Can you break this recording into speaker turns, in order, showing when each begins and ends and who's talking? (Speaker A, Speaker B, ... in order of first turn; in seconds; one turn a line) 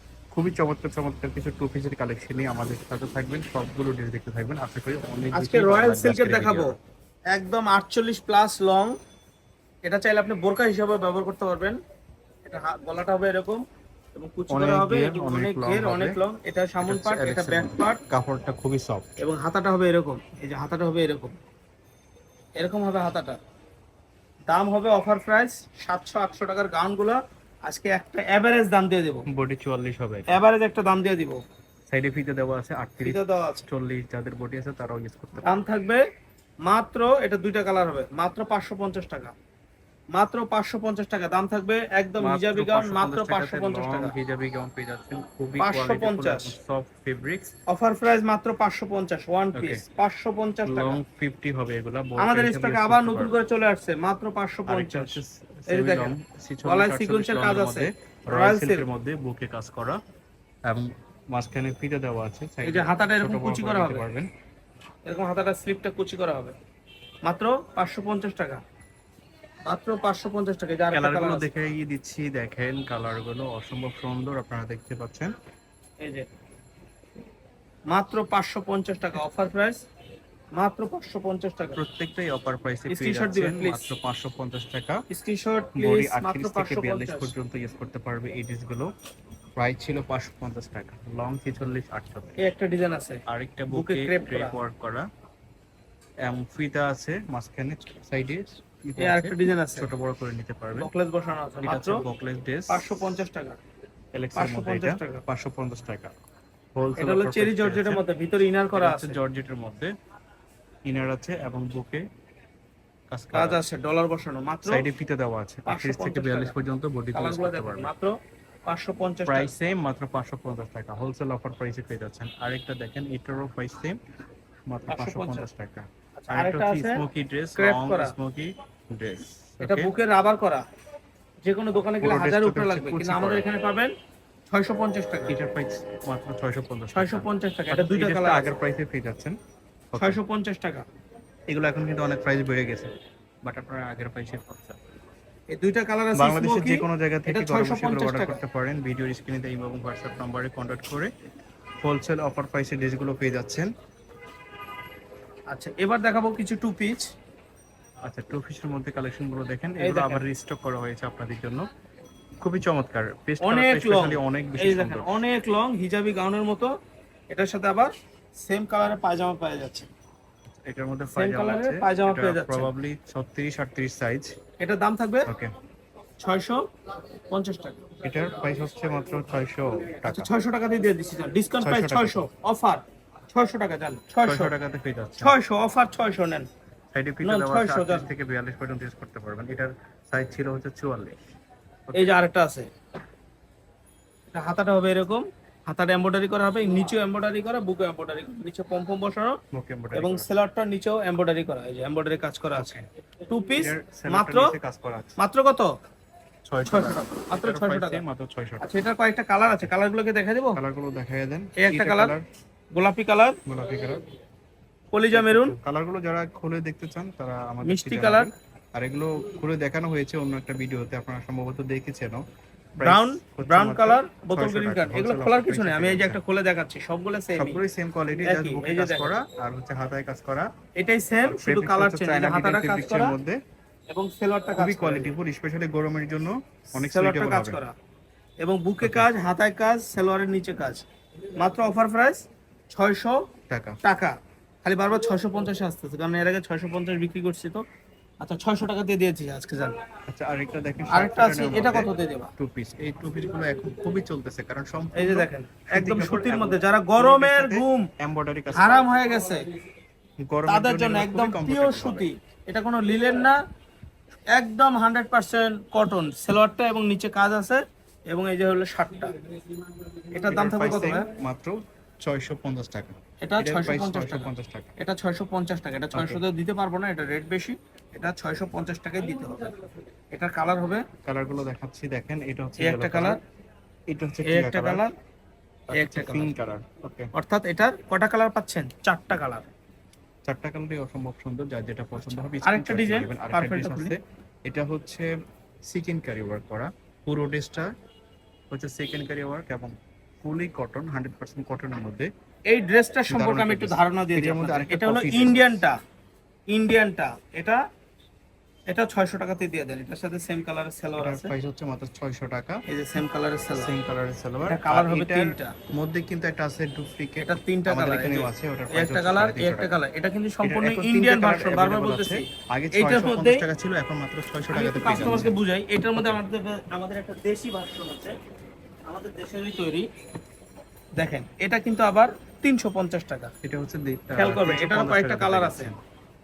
Speaker A: 0.3-6.7
Speaker B: 5.3-6.7
Speaker B: 7.3-8.9
Speaker B: 9.8-11.8
Speaker B: 12.4-13.6
Speaker B: 14.1-18.0
Speaker A: 14.5-16.2
Speaker A: 16.8-19.1
Speaker B: 19.2-21.4
Speaker B: 22.6-23.4
Speaker B: 24.5-29.2
Speaker A: 29.3-30.4
Speaker B: 30.3-31.4
Speaker A: 31.9-35.6
Speaker B: 33.0-33.6
Speaker B: 35.4-36.0
Speaker B: 36.6-39.3
Speaker B: 40.1-44.1
Speaker A: 42.2-47.5
Speaker B: 45.6-46.5
Speaker B: 47.7-51.0
Speaker A: 49.5-49.8
Speaker A: 50.6-53.3
Speaker B: 52.2-58.9
Speaker A: 54.7-60.0
Speaker A: 60.6-64.3
Speaker B: 62.6-64.0
Speaker B: 65.0-66.5
Speaker B: 67.2-68.6
Speaker B: 69.7-71.5
Speaker A: 70.9-75.3
Speaker B: 76.0-76.3
Speaker B: 77.9-79.8
Speaker B: 80.6-81.8
Speaker A: 81.7-85.0
Speaker B: 82.9-83.9
Speaker B: 85.1-87.3
Speaker A: 85.7-88.9
Speaker A: 89.6-92.4
Speaker B: 92.4-94.6
Speaker A: 93.2-95.0
Speaker A: 96.2-100.9
Speaker B: 99.0-99.9
Speaker B: 100.8-102.0
Speaker A: 101.6-102.8
Speaker B: 102.7-103.6
Speaker A: 104.1-106.1
Speaker B: 104.3-105.2
Speaker A: 106.7-108.0
Speaker B: 107.0-109.2
Speaker A: 108.7-109.9
Speaker A: 110.9-112.0
Speaker A: 113.1-113.6
Speaker B: 113.3-114.9
Speaker A: 114.7-117.9
Speaker B: 115.7-116.5
Speaker B: 117.1-118.1
Speaker B: 118.7-119.5
Speaker A: 119.2-124.0
Speaker A: 124.7-129.9
Speaker B: 124.9-125.5
Speaker B: 126.2-127.0
Speaker B: 127.5-128.1
Speaker B: 129.6-130.6
Speaker B: 131.4-133.9
Speaker A: 132.0-133.4
Speaker B: 134.5-135.3
Speaker A: 135.3-139.4
Speaker B: 136.9-138.5
Speaker A: 139.9-140.2
Speaker B: 139.9-140.8
Speaker A: 141.5-142.9
Speaker A: 143.4-144.8
Speaker B: 145.5-148.4
Speaker A: 146.1-151.1
Speaker A: 151.8-153.7
Speaker B: 155.5-157.1
Speaker A: 158.0-161.7
Speaker B: 159.8-160.2
Speaker A: 162.4-165.2
Speaker B: 163.4-166.7
Speaker B: 167.3-169.9
Speaker A: 170.7-174.3
Speaker B: 171.1-172.7
Speaker B: 174.6-175.3
Speaker A: 175.2-175.5
Speaker B: 176.2-176.6
Speaker B: 177.3-177.8
Speaker A: 178.0-180.3
Speaker B: 180.0-184.5
Speaker A: 181.6-182.2
Speaker A: 184.2-185.3
Speaker B: 185.2-186.5
Speaker A: 186.9-191.2
Speaker B: 187.2-188.1
Speaker A: 191.9-192.2
Speaker B: 191.9-192.7
Speaker B: 194.3-199.4
Speaker A: 199.5-200.3
Speaker B: 199.9-202.7
Speaker A: 202.5-202.8
Speaker B: 203.3-204.5
Speaker A: 203.6-205.2
Speaker B: 205.2-205.7
Speaker A: 206.5-208.7
Speaker B: 206.7-208.0
Speaker B: 208.6-210.6
Speaker A: 210.5-212.2
Speaker B: 211.6-212.1
Speaker B: 212.7-213.4
Speaker A: 213.4-214.0
Speaker B: 214.9-215.6
Speaker A: 215.1-222.2
Speaker B: 217.6-218.3
Speaker A: 222.8-226.2
Speaker B: 222.8-227.6
Speaker A: 227.3-230.5
Speaker B: 228.2-229.2
Speaker B: 230.8-233.1
Speaker A: 231.2-233.4
Speaker B: 233.9-235.1
Speaker A: 234.5-237.6
Speaker B: 236.8-237.7
Speaker B: 238.4-240.8
Speaker A: 238.8-239.1
Speaker B: 241.3-243.2
Speaker A: 243.5-243.8
Speaker B: 243.8-247.6
Speaker B: 248.2-249.8
Speaker A: 250.1-258.9
Speaker B: 250.9-252.3
Speaker B: 254.9-257.9
Speaker B: 258.5-259.4
Speaker A: 260.2-262.1
Speaker B: 260.4-263.4
Speaker B: 264.3-269.1
Speaker B: 270.1-271.1
Speaker A: 270.3-274.7
Speaker B: 273.2-280.9
Speaker A: 275.9-276.2
Speaker A: 281.0-283.2
Speaker B: 282.6-283.2
Speaker A: 283.9-284.9
Speaker B: 284.2-284.9
Speaker A: 285.7-287.1
Speaker B: 285.7-286.3
Speaker B: 287.1-289.5
Speaker A: 290.2-295.1
Speaker B: 292.4-293.9
Speaker A: 295.7-297.7
Speaker A: 298.5-302.1
Speaker B: 302.5-305.8
Speaker A: 303.1-305.6
Speaker B: 306.5-307.6
Speaker B: 308.7-311.3
Speaker A: 311.0-312.6
Speaker B: 312.7-313.7
Speaker A: 313.5-319.7
Speaker B: 314.4-315.6
Speaker B: 317.2-323.4
Speaker A: 320.4-325.4
Speaker B: 324.5-328.2
Speaker B: 328.9-329.9
Speaker B: 331.0-333.3
Speaker A: 333.4-335.8
Speaker B: 334.1-335.7